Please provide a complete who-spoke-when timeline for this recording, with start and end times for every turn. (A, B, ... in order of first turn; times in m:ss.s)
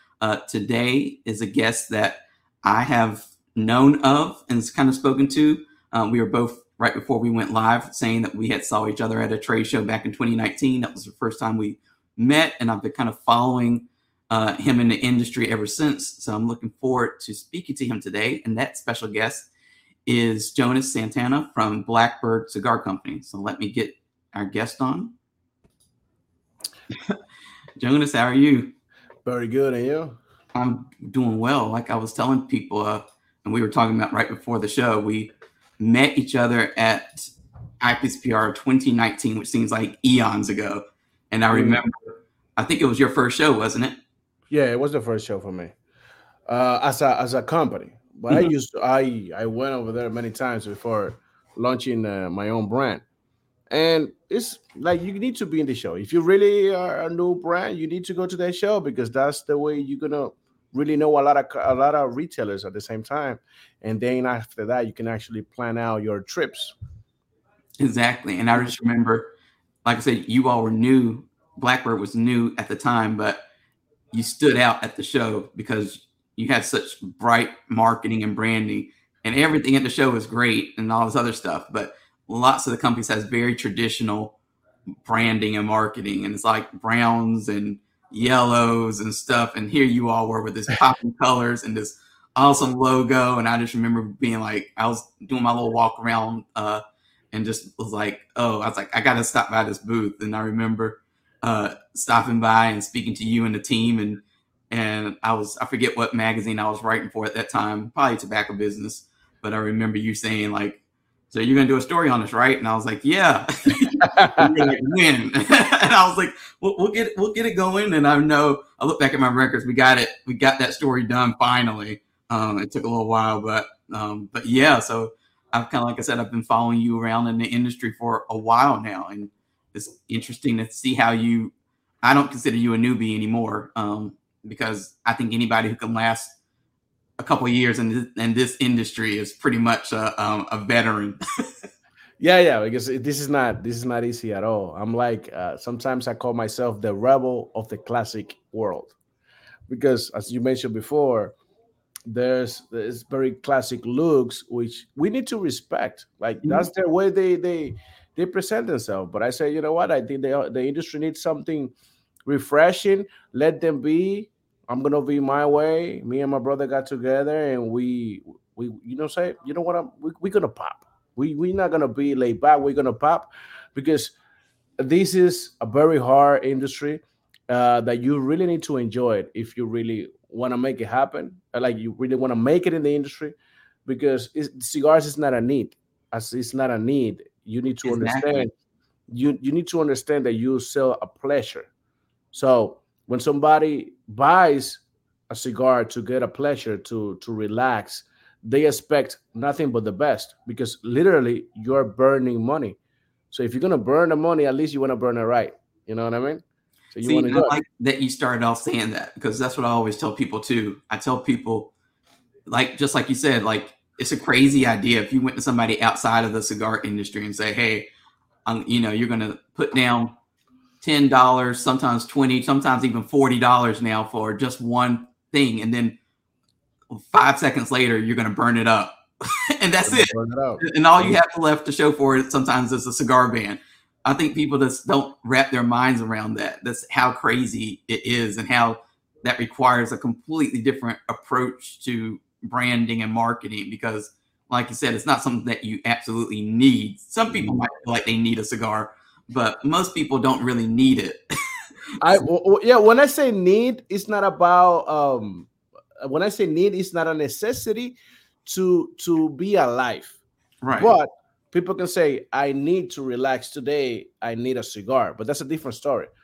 0:00.2-0:19.5 A
0:20.0-0:25.1 A
0:27.8-0:28.7 A
0:29.2-0:30.2 B
0:30.5-0:44.0 A
0:41.5-0:41.8 B
0:44.5-0:45.7 B
0:46.5-0:53.0 B
0:53.7-1:06.7 B
1:07.8-1:09.3 A
1:09.8-1:13.4 A
1:14.1-1:24.3 A
1:25.0-1:36.8 A
1:37.3-2:11.5 A
1:54.0-1:54.6 B
2:12.0-2:16.3 A
2:17.2-2:21.2 A
2:22.2-2:28.9 B
2:29.7-2:31.3 B
2:32.1-2:41.7 B
2:42.2-2:54.1 B
2:54.8-3:03.3 B
3:03.8-3:08.5 B
3:07.8-3:08.4 A
3:09.1-3:11.7 B
3:12.3-3:22.8 B
3:23.3-3:26.4 B
3:26.9-3:27.6 B
3:27.0-3:31.7 A
3:32.5-3:37.8 A
3:38.4-3:40.1 A
3:40.8-3:46.0 A
3:46.9-4:11.2 A
3:49.8-3:51.2 B
4:07.3-4:07.6 B
4:12.0-4:15.5 B
4:16.0-4:20.2 B
4:20.6-4:20.9 A
4:20.8-4:26.1 B